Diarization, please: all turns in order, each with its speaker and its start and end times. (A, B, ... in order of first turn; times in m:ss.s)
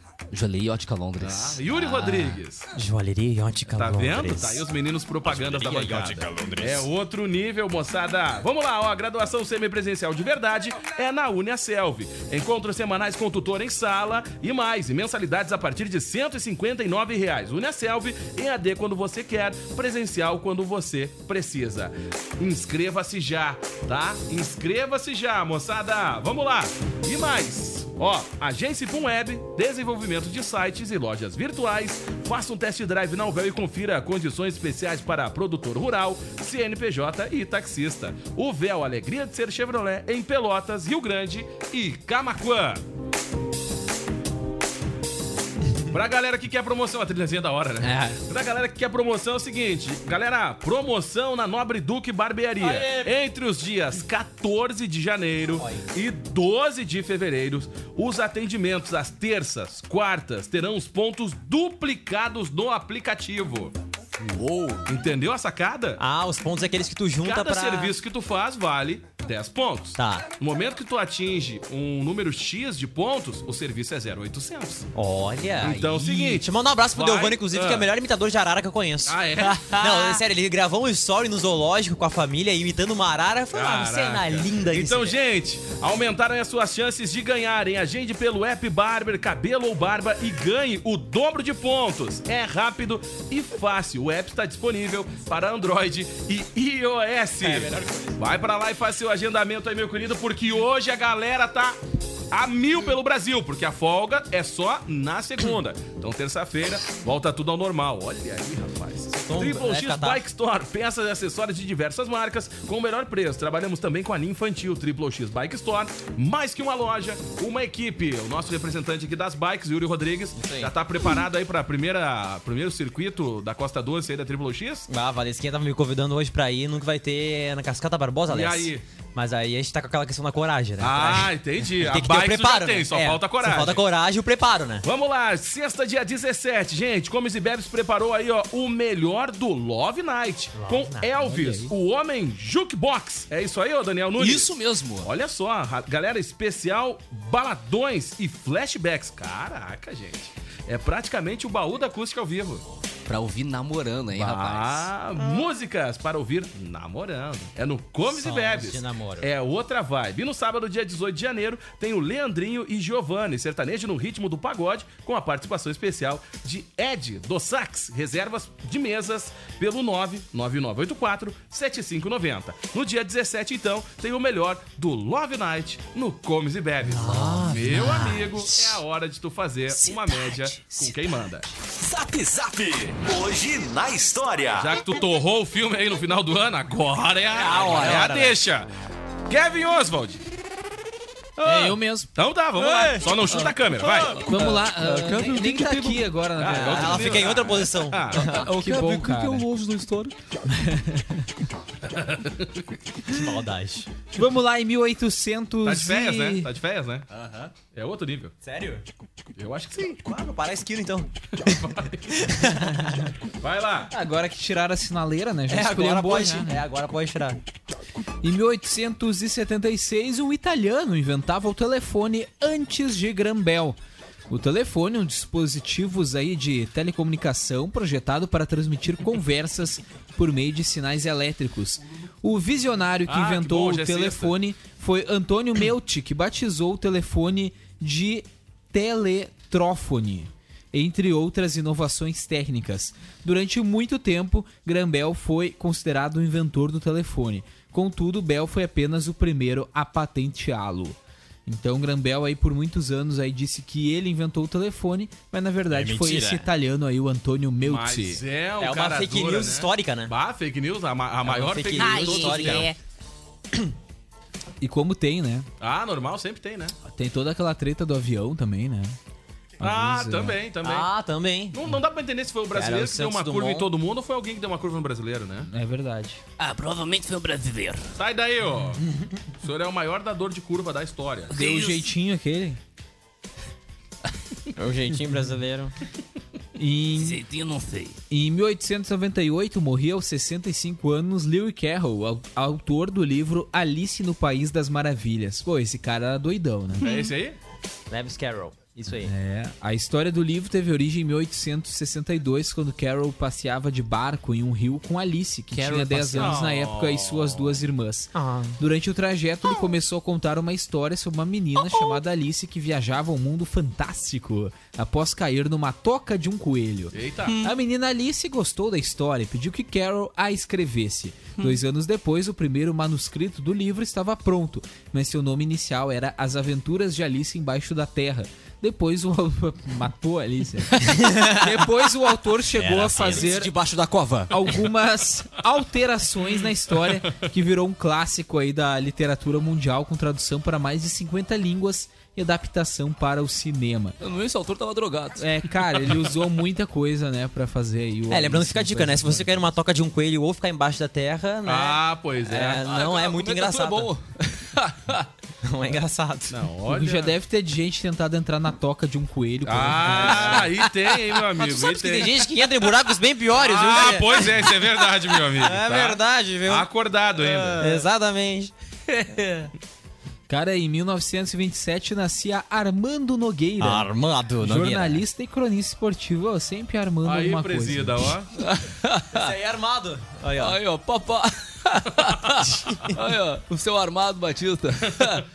0:00.3-0:02.4 A
0:01.2-0:02.6 B
0:02.8-0:04.6 C
0:03.7-0:42.8 B
0:05.3-0:06.8 C
0:45.9-1:03.7 B
0:52.7-0:53.0 C
1:04.4-1:04.8 A
1:04.8-1:06.0 B
1:06.0-1:07.9 C
1:07.2-1:14.9 B
1:10.0-1:10.3 C
1:14.9-1:25.2 C
1:15.6-1:17.9 B
1:19.1-1:19.8 B
1:23.5-1:41.8 B
1:37.4-1:38.2 C
1:42.3-2:04.9 B
1:49.1-1:50.2 C
2:04.9-2:14.8 C
2:08.3-2:08.8 B
2:10.8-2:13.8 B
2:14.8-2:32.6 B
2:20.6-2:21.1 C
2:21.2-2:21.7 D
2:24.2-2:25.1 A
2:33.1-2:34.9 A
2:34.1-3:01.5 B
2:38.1-2:39.3 C
2:56.8-2:58.5 C
2:59.9-3:00.7 A
3:01.8-3:04.7 E
3:04.6-3:08.7 B
3:07.3-3:08.4 C
3:09.3-3:10.2 B
3:11.4-3:12.1 D
3:11.4-3:14.3 B
3:13.9-3:16.1 A
3:14.3-3:17.3 D
3:16.4-3:18.2 B
3:16.4-3:18.3 C
3:18.2-3:19.5 D
3:18.2-3:20.1 A
3:20.5-3:21.3 D
3:21.9-3:22.6 B
3:23.1-3:23.9 C
3:24.1-3:26.5 D
3:25.6-3:27.1 B
3:27.7-3:28.3 B
3:28.4-3:28.8 C
3:29.4-3:30.0 B
3:29.9-3:33.1 C
3:31.4-3:32.4 B
3:33.4-3:33.9 B
3:33.9-3:36.6 D
3:35.5-3:37.4 C
3:38.2-3:43.8 D
3:44.3-4:18.2 D
3:53.1-3:54.3 B
4:15.7-4:16.5 C
4:17.6-4:22.7 B
4:18.6-4:20.1 C
4:21.2-4:22.7 C
4:21.8-4:22.7 A
4:24.6-4:25.5 D
4:25.6-4:26.7 B
4:26.8-4:29.0 D
4:29.6-4:30.9 B
4:29.6-4:30.4 D
4:30.6-4:31.6 C
4:31.5-4:35.5 B
4:32.5-4:33.7 C
4:35.5-4:36.2 D
4:36.4-4:37.8 A
4:38.0-4:38.8 B
4:39.4-4:41.4 B
4:41.3-4:41.8 A
4:41.3-4:42.6 D
4:44.6-4:45.7 C
4:46.6-4:47.2 D
4:47.0-4:48.0 A
4:48.1-4:56.9 D
4:56.8-4:57.4 B
4:57.9-4:59.1 C
4:59.0-5:33.5 D
5:05.5-5:06.3 A
5:06.1-5:07.6 B
5:08.2-5:08.6 C
5:16.9-5:17.4 B
5:17.3-5:17.6 A
5:30.8-5:31.5 C
5:32.6-5:33.4 C
5:33.0-5:34.2 A
5:34.3-5:44.0 D
5:44.0-5:45.2 A
5:45.2-5:49.5 D
5:48.1-5:53.9 C
5:51.4-5:52.6 B
5:52.6-5:55.1 A
5:55.4-5:56.4 C
5:56.3-5:57.2 B
5:56.7-6:00.5 D
5:59.4-6:02.1 B
5:59.8-6:00.5 C
6:01.4-6:04.6 C
6:03.3-6:07.8 B
6:05.3-6:09.5 C
6:10.3-6:13.9 D
6:13.6-6:15.0 C
6:14.4-6:18.2 D
6:17.0-6:18.3 B
6:18.4-6:19.3 A
6:19.2-6:20.6 C
6:20.4-6:25.2 A
6:22.7-6:22.9 C